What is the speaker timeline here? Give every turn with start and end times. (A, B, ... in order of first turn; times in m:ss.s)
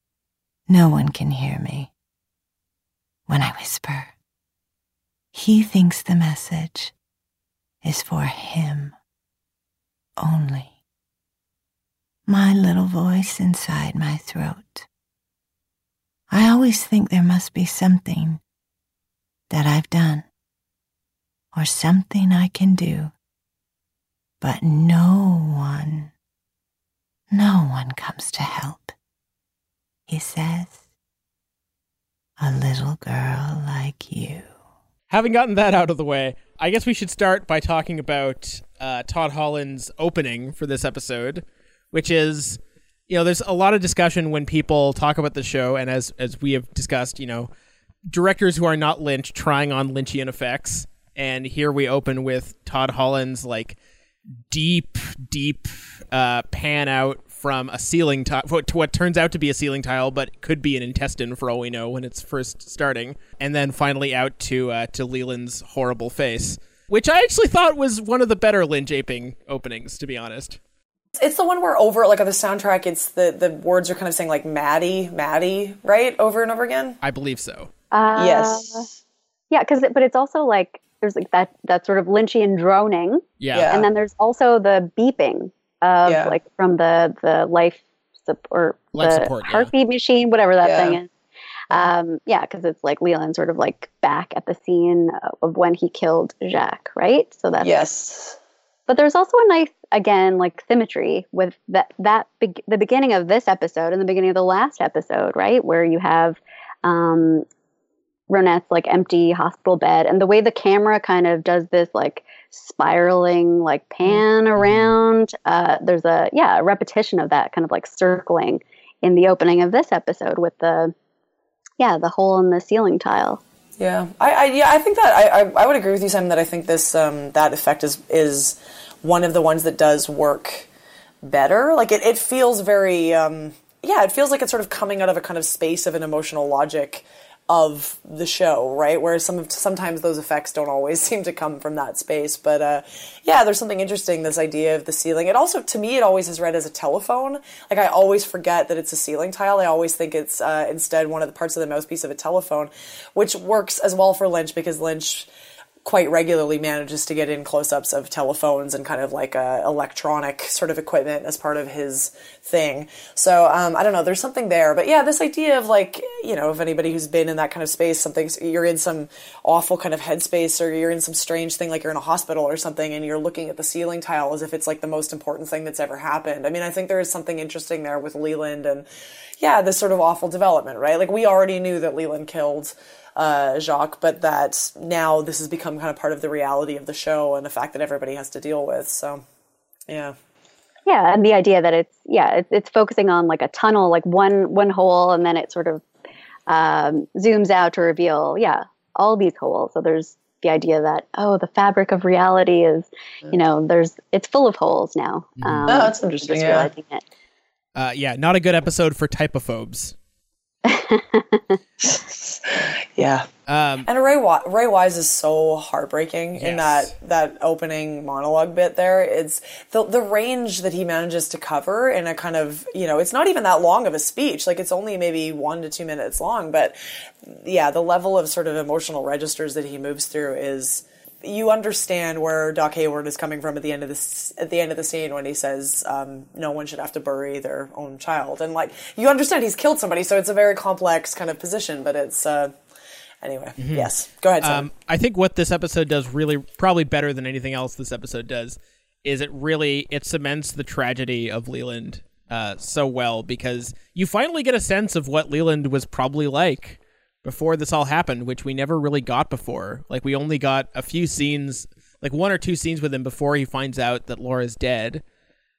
0:00.7-0:01.9 A
0:03.3-0:04.1 A
0:05.3-0:06.9 A
0:07.8-0:09.0 A
0:10.2-0:10.8 A
0:12.3-0:14.9 A
0:16.3-0:18.4 A
0:19.5-0:20.3 A
0:21.5-0:23.1 A
0:24.4-0:26.1 A
0:27.3-0:29.0 A
0:30.1-0:30.8 A
0:32.4-0:34.6 A
0:35.1-0:47.5 B
0:48.1-0:53.8 B
0:54.5-1:10.6 B
1:11.2-1:17.0 C
1:17.0-1:17.7 B
1:17.9-1:18.9 D
1:18.2-1:18.9 C
1:19.5-1:31.1 D
1:23.4-1:23.7 B
1:23.5-1:23.9 C
1:26.0-1:26.4 C
1:28.9-1:29.7 B
1:30.6-1:31.0 C
1:31.7-1:37.7 D
1:37.6-1:38.4 C
1:38.9-1:47.5 D
1:48.3-2:00.9 D
1:54.6-1:55.0 B
2:01.8-2:03.4 D
2:03.8-2:10.7 C
2:11.2-2:35.3 C
2:35.8-2:58.9 C
2:59.4-3:09.2 C
3:09.9-3:10.2 C
3:10.9-3:15.8 D
3:16.5-3:27.0 D
3:25.4-3:25.8 B
3:25.7-3:26.7 C
3:27.8-3:30.0 B
3:30.7-3:31.5 D
3:31.8-3:33.3 C
3:33.5-3:33.9 B
3:33.8-4:02.6 C
3:36.4-3:36.9 B
4:03.2-4:04.7 C
4:03.6-4:03.9 B
4:04.4-4:25.0 B